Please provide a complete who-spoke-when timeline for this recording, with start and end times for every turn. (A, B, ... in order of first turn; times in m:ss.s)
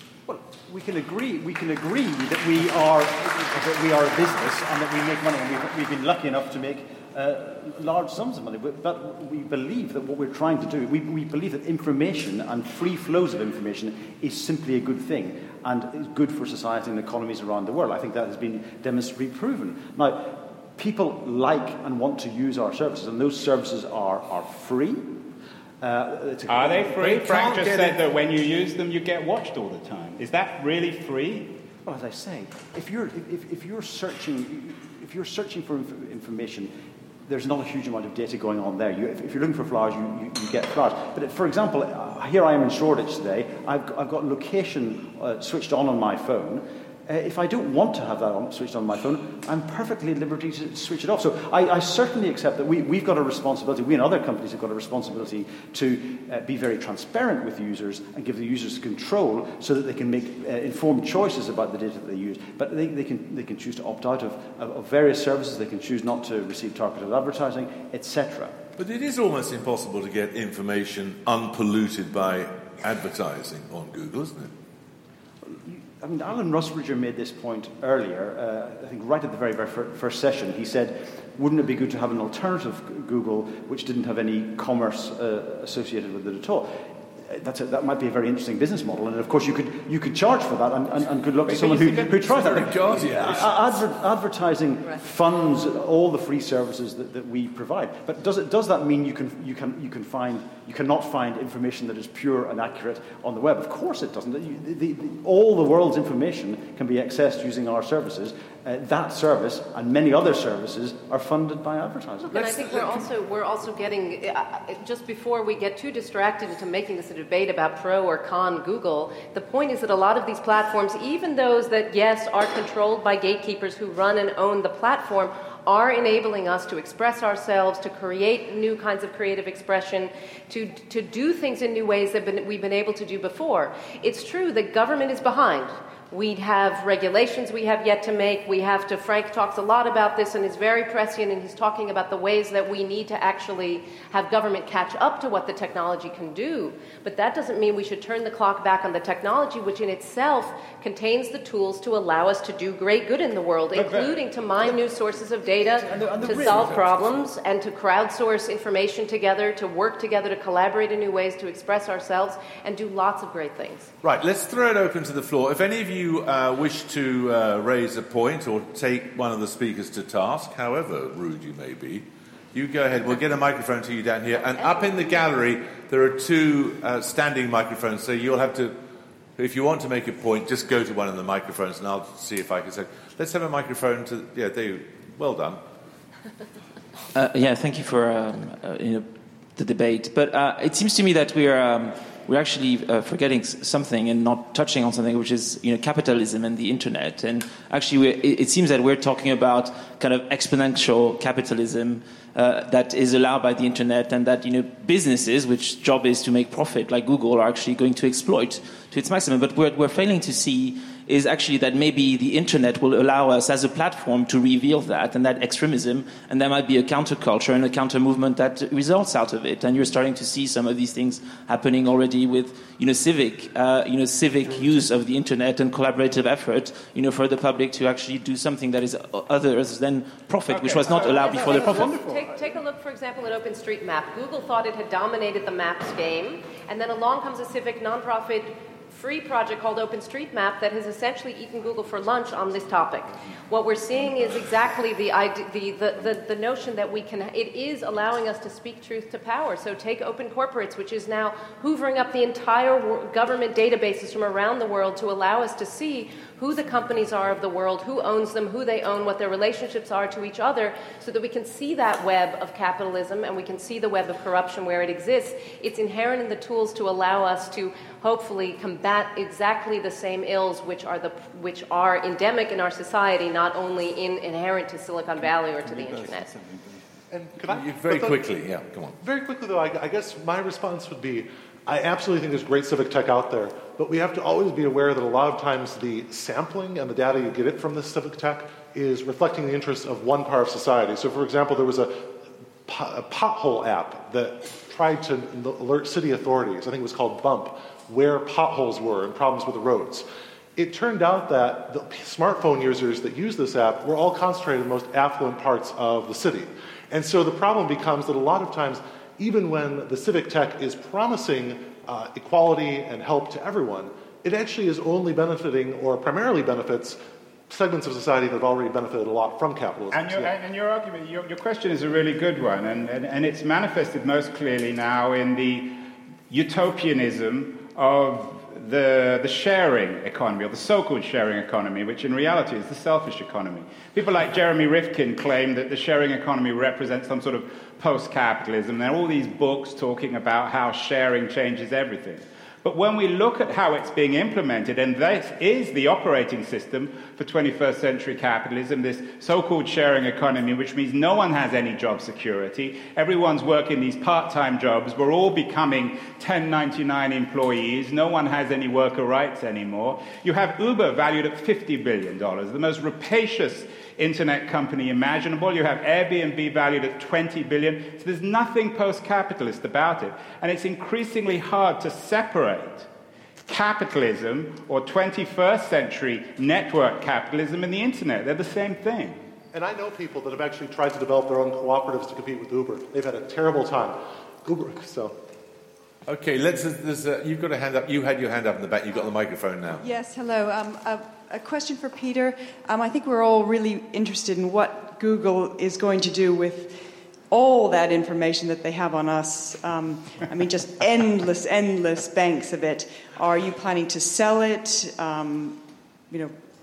0:00.3-0:25.2 A
0:25.8-0:27.4 A
0:26.5-0:31.5 B
0:27.0-0:28.0 C
0:31.8-0:36.7 A
0:37.3-1:08.6 A
1:08.8-1:14.5 C
1:15.4-1:53.0 A
1:31.5-1:33.8 C
1:52.3-2:43.9 D
2:33.7-2:34.2 B
2:35.8-2:36.9 A
2:36.2-2:36.8 C
2:44.0-2:58.8 C
2:59.4-3:05.6 C
3:07.1-3:51.9 E
3:50.5-3:51.9 B
3:50.9-3:52.3 A
3:51.0-4:36.3 D
4:37.1-4:38.3 F
4:37.5-4:39.0 C
4:39.0-4:52.1 F
4:52.7-5:00.0 F
5:00.6-5:20.3 F
5:19.9-6:12.9 B
6:13.5-6:19.2 B
6:19.5-6:25.2 F
6:26.1-6:29.9 C
6:29.8-6:46.4 G